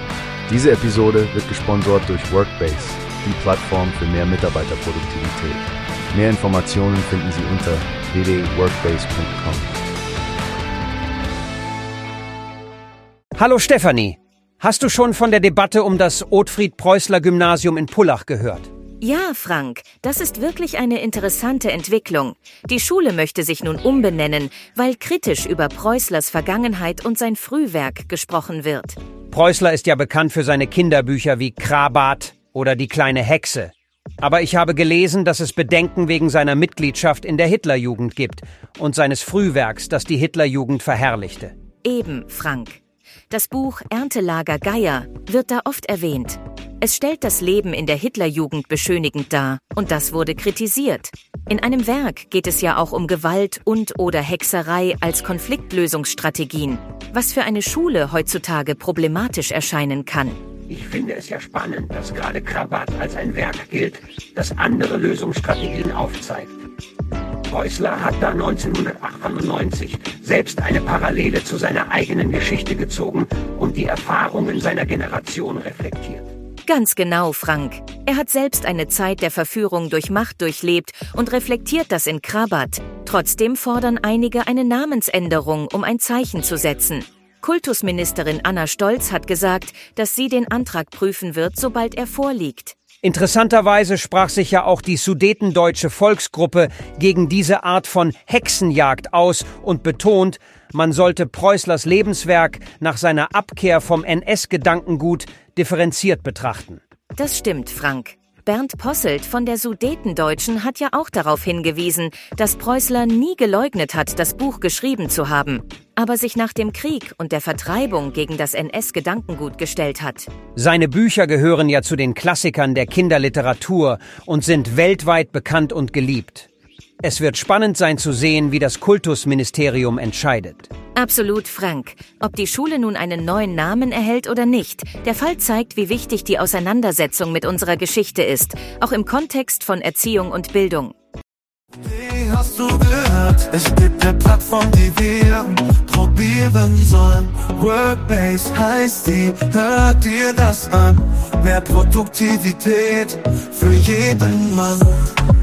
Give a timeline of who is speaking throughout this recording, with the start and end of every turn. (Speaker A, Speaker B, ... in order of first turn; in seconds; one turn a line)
Speaker A: 0.5-9.9
Speaker B: 13.3-18.7
Speaker C: 19.0-29.0
Speaker B: 29.3-41.5
Speaker C: 41.8-60.4
Speaker D: 60.7-66.5
Speaker B: 60.9-66.3
Speaker B: 67.5-68.5
Speaker D: 67.6-76.2
Speaker B: 70.1-72.6
Speaker B: 74.3-76.1
Speaker C: 76.7-92.8
Speaker B: 93.0-106.8
Speaker C: 107.2-120.3
Speaker B: 120.5-126.5
Speaker B: 127.0-130.7
Speaker C: 130.9-140.9
Speaker E: 141.8-155.1